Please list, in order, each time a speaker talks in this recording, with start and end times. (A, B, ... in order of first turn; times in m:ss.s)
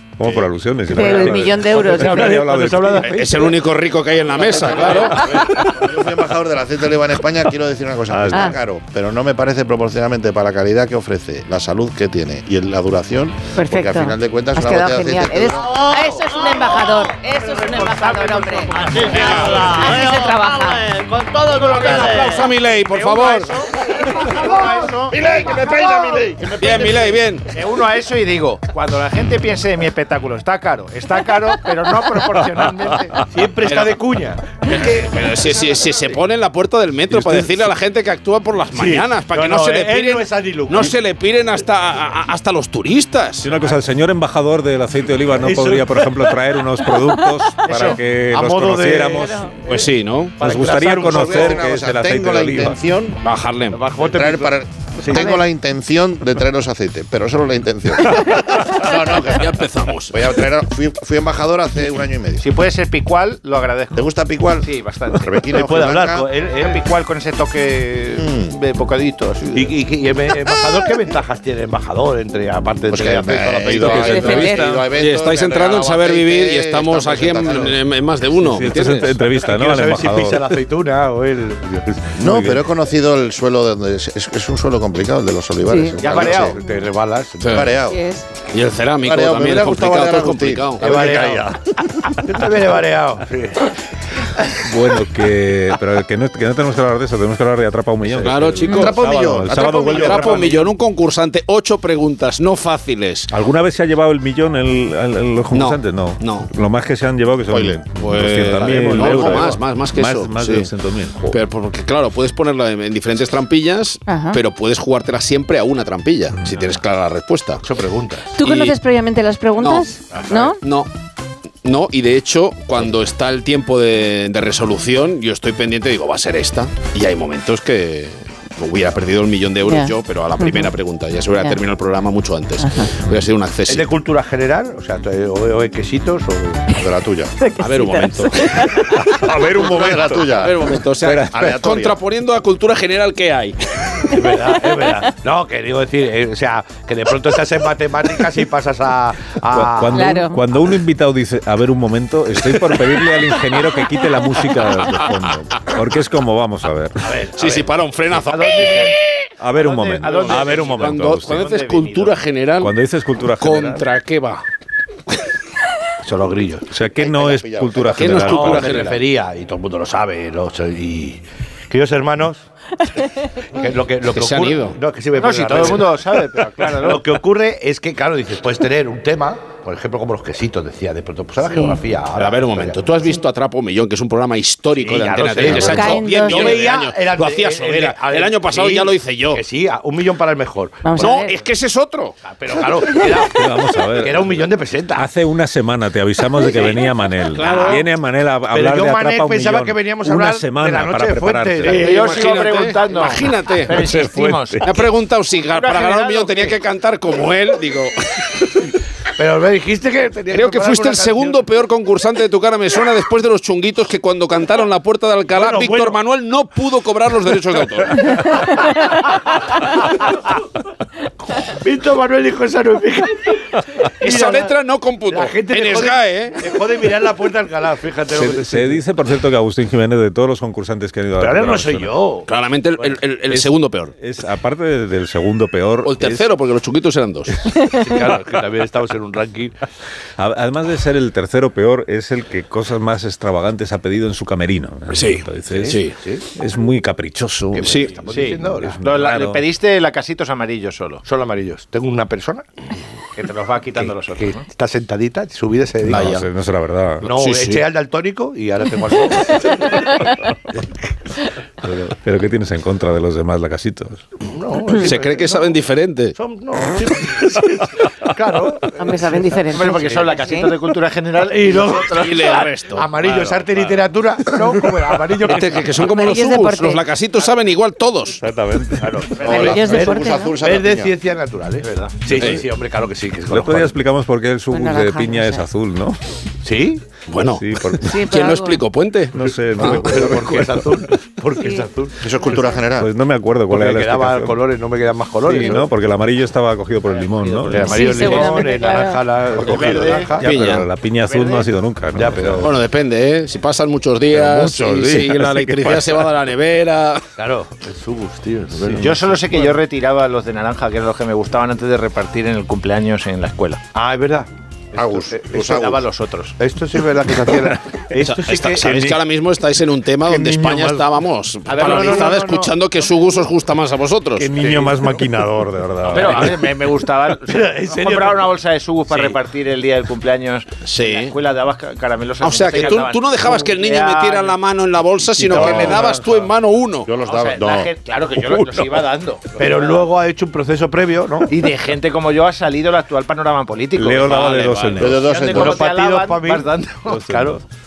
0:00.2-0:03.1 A
0:00.9-0:02.4 B
0:01.0-0:03.1 C
0:03.0-0:05.4 D
0:03.1-0:03.5 E
0:04.5-0:15.7 E
0:05.0-0:05.2 C
0:08.1-0:08.5 A
0:13.6-0:20.9 B
0:15.7-0:16.9 F
0:17.3-0:20.1 G
0:18.7-0:22.4 F
0:21.8-0:22.2 G
0:22.1-0:23.5 D
0:22.8-0:26.1 G
0:25.1-0:27.2 E
0:26.6-0:27.4 D
0:27.5-0:33.2 G
0:33.3-0:34.9 C
0:33.7-0:34.0 D
0:34.7-0:43.5 D
0:37.1-0:37.7 A
0:38.8-0:40.9 C
0:43.4-0:49.5 A
0:45.4-0:46.1 C
0:47.7-0:48.0 G
0:47.7-0:49.4 C
0:49.2-0:49.5 B
0:49.7-0:50.4 D
0:50.4-0:51.6 C
0:50.4-0:52.8 A
0:51.0-0:53.2 E
0:53.2-0:53.8 D
0:53.7-0:55.4 C
0:54.0-0:59.5 E
0:59.1-1:00.3 D
1:00.1-1:02.5 E
1:02.4-1:04.1 G
1:04.0-1:06.3 E
1:04.6-1:09.8 G
1:05.5-1:06.8 C
1:08.2-1:08.5 E
1:09.5-1:13.8 C
1:12.9-1:17.8 E
1:13.7-1:14.8 A
1:13.8-1:14.7 B
1:14.5-1:19.2 D
1:18.4-1:20.5 A
1:19.4-1:22.6 C
1:22.2-1:26.6 E
1:25.7-1:26.0 B
1:26.0-1:26.6 G
1:26.2-1:27.7 C
1:27.4-1:27.7 D
1:27.5-1:28.0 E
1:27.8-1:28.2 B
1:28.5-1:31.1 D
1:29.0-1:31.5 E
1:30.8-1:31.6 C
1:32.2-1:33.7 C
1:34.6-1:40.7 A
1:38.1-1:43.3 D
1:38.6-1:40.6 E
1:43.3-1:51.3 A
1:45.5-1:46.5 D
1:47.5-1:49.6 E
1:48.0-1:50.7 D
1:51.2-1:57.6 D
1:54.1-1:54.4 B
1:57.6-1:58.3 C
1:58.4-2:00.6 B
1:58.4-1:58.8 D
1:59.6-2:00.9 D
2:00.1-2:00.5 C
2:01.6-2:13.9 D
2:09.6-2:10.7 B
2:11.3-2:11.6 B
2:12.6-2:12.9 B
2:13.7-2:16.7 C
2:16.7-2:17.3 E
2:17.4-2:19.0 B
2:17.6-2:18.8 D
2:19.1-2:20.4 A
2:19.1-2:20.7 E
2:20.2-2:23.8 D
2:21.0-2:21.4 A
2:21.3-2:22.0 E
2:24.1-2:30.1 C
2:29.5-2:37.1 A
2:29.9-2:30.4 B
2:37.0-2:37.7 C
2:37.3-2:39.0 D
2:38.3-2:38.8 C
2:38.4-2:38.9 G
2:39.4-2:41.5 A
2:39.6-2:42.2 G
2:40.2-2:42.8 D
2:42.6-2:43.8 A
2:43.4-2:44.4 D
2:46.0-2:46.7 C
2:46.7-2:48.8 A
2:47.0-2:48.6 E
2:47.9-2:49.0 D
2:48.2-2:52.5 C
2:53.5-2:56.0 C
2:54.1-2:54.8 D
2:55.1-2:57.1 G
2:56.8-3:02.8 C
3:02.1-3:09.4 D
3:04.8-3:11.2 C
3:05.4-3:06.7 B
3:10.8-3:11.4 B
3:11.0-3:12.2 D
3:12.3-3:15.1 C
3:13.3-3:21.9 A
3:16.4-3:17.9 D
3:18.5-3:22.2 C
3:21.6-3:24.8 G
3:21.6-3:23.9 D
3:23.8-3:24.7 A
3:24.6-3:28.7 D
3:25.3-3:26.6 G
3:29.2-3:31.4 C
3:30.3-3:38.2 D
3:35.3-3:36.0 C
3:41.4-3:44.5 C
3:44.0-3:46.4 D
3:45.1-3:48.8 C
3:48.1-3:52.0 A
3:51.2-3:52.3 C
3:52.3-3:53.9 D
3:53.3-3:56.3 A
3:55.8-3:57.5 D
3:57.7-3:59.6 C
4:00.2-4:09.4 A
4:04.9-4:06.0 D
4:05.6-4:06.2 C
4:07.5-4:08.8 C
4:07.6-4:07.9 D
4:08.1-4:11.0 G
4:11.0-4:12.4 C
4:13.2-4:14.5 G
4:13.8-4:16.2 C
4:15.8-4:17.1 A
4:15.9-4:16.2 D
4:17.0-4:19.6 C
4:17.1-4:17.6 D
4:21.6-4:21.9 C
4:21.9-4:24.1 A
4:24.2-4:25.5 C
4:24.8-4:26.2 D
4:26.2-4:29.2 C
4:28.8-4:30.5 B
4:29.5-4:32.4 G
4:31.2-4:35.7 C
4:31.8-4:33.8 D
4:35.2-4:38.2 D
4:35.8-4:36.8 B
4:38.2-4:39.2 A
4:38.8-4:43.8 C
4:39.2-4:40.9 E
4:39.2-4:40.4 B
4:42.1-4:42.4 D
4:43.3-4:46.0 A
4:44.5-4:45.5 B
4:46.4-4:46.8 C
4:47.1-4:49.8 D
4:47.2-4:48.0 A
4:47.8-4:48.6 B
4:49.1-4:50.8 A
4:49.6-4:52.0 C
4:51.4-4:51.7 B
4:52.0-4:52.9 E
4:52.2-4:52.6 B
4:52.8-4:54.4 A
4:53.5-4:55.7 C
4:55.2-4:57.8 A
4:57.0-4:58.6 G
4:57.4-5:00.4 C
4:57.6-4:59.1 B
4:59.4-5:00.2 G
5:00.2-5:02.5 A
5:00.2-5:00.7 D
5:01.0-5:01.5 G
5:02.0-5:02.5 C
5:02.4-5:07.1 D
5:04.1-5:06.1 A
5:07.2-5:09.5 C
5:08.6-5:08.9 A
5:08.8-5:13.6 G
5:13.8-5:15.2 C
5:14.8-5:15.8 E
5:15.3-5:16.4 G
5:16.4-5:18.9 C
5:18.0-5:24.4 D
5:20.1-5:20.8 A
5:21.5-5:22.4 G
5:21.5-5:22.4 C
5:24.2-5:26.4 A
5:25.9-5:34.4 G
5:26.0-5:26.3 C
5:27.2-5:28.3 C
5:30.7-5:31.2 D
5:32.2-5:36.9 D
5:35.3-5:35.8 E
5:35.3-5:35.7 A
5:36.9-5:37.7 E
5:37.0-5:39.8 G
5:39.4-5:41.3 C
5:41.3-5:47.2 G
5:43.8-5:45.1 A
5:44.0-5:45.0 D
5:44.8-5:45.7 E
5:45.2-5:47.4 C
5:46.9-5:47.4 A